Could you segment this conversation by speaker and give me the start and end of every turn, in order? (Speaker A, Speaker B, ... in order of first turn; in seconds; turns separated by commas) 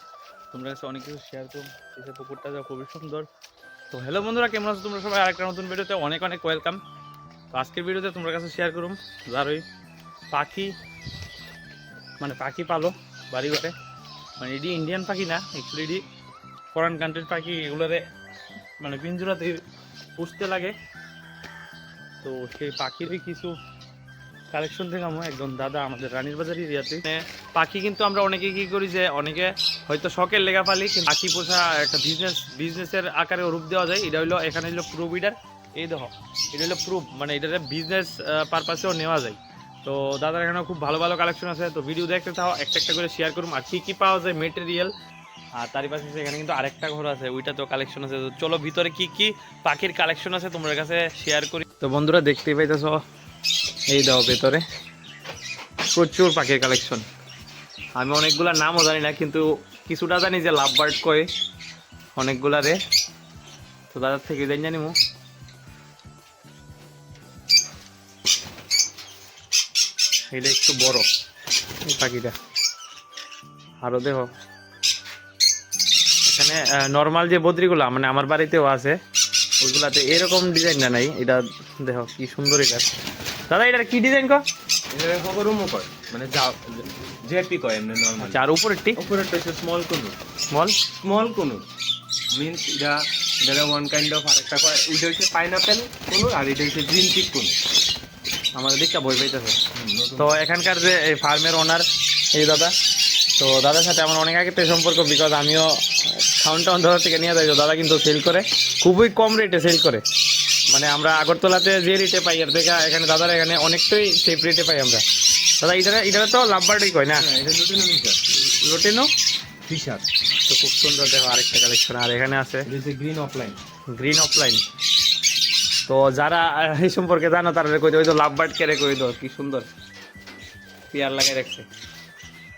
Speaker A: 0.5-3.2, Speaker A: 3.9-6.8, Speaker A: 7.5-9.6, Speaker A: 10.3-10.7, Speaker A: 12.2-13.7, Speaker A: 14.4-16.0, Speaker A: 16.7-18.0, Speaker A: 18.8-19.6, Speaker A: 20.2-20.7, Speaker A: 22.2-23.5, Speaker A: 24.5-44.9, Speaker A: 45.5-53.0, Speaker A: 53.9-54.6, Speaker A: 55.9-57.0, Speaker A: 58.0-61.3, Speaker A: 62.1-62.8, Speaker A: 63.9-64.9, Speaker A: 70.3-71.1, Speaker A: 71.8-72.3, Speaker A: 73.8-74.3, Speaker A: 76.2-79.0, Speaker A: 79.6-82.9, Speaker A: 83.5-84.4, Speaker B: 84.9-88.4, Speaker A: 88.2-89.0, Speaker B: 89.0-90.2, Speaker A: 90.5-90.8, Speaker B: 91.0-91.6, Speaker B: 92.3-97.5, Speaker A: 98.5-99.6, Speaker B: 99.7-100.4, Speaker A: 100.2-102.7, Speaker A: 103.4-110.0, Speaker A: 110.7-115.0, Speaker A: 115.6-117.2, Speaker B: 117.2-118.2, Speaker A: 118.3-119.1, Speaker B: 119.7-120.0, Speaker A: 120.5-122.7, Speaker B: 122.7-123.6, Speaker A: 123.9-124.6, Speaker A: 125.9-129.7, Speaker A: 130.9-131.7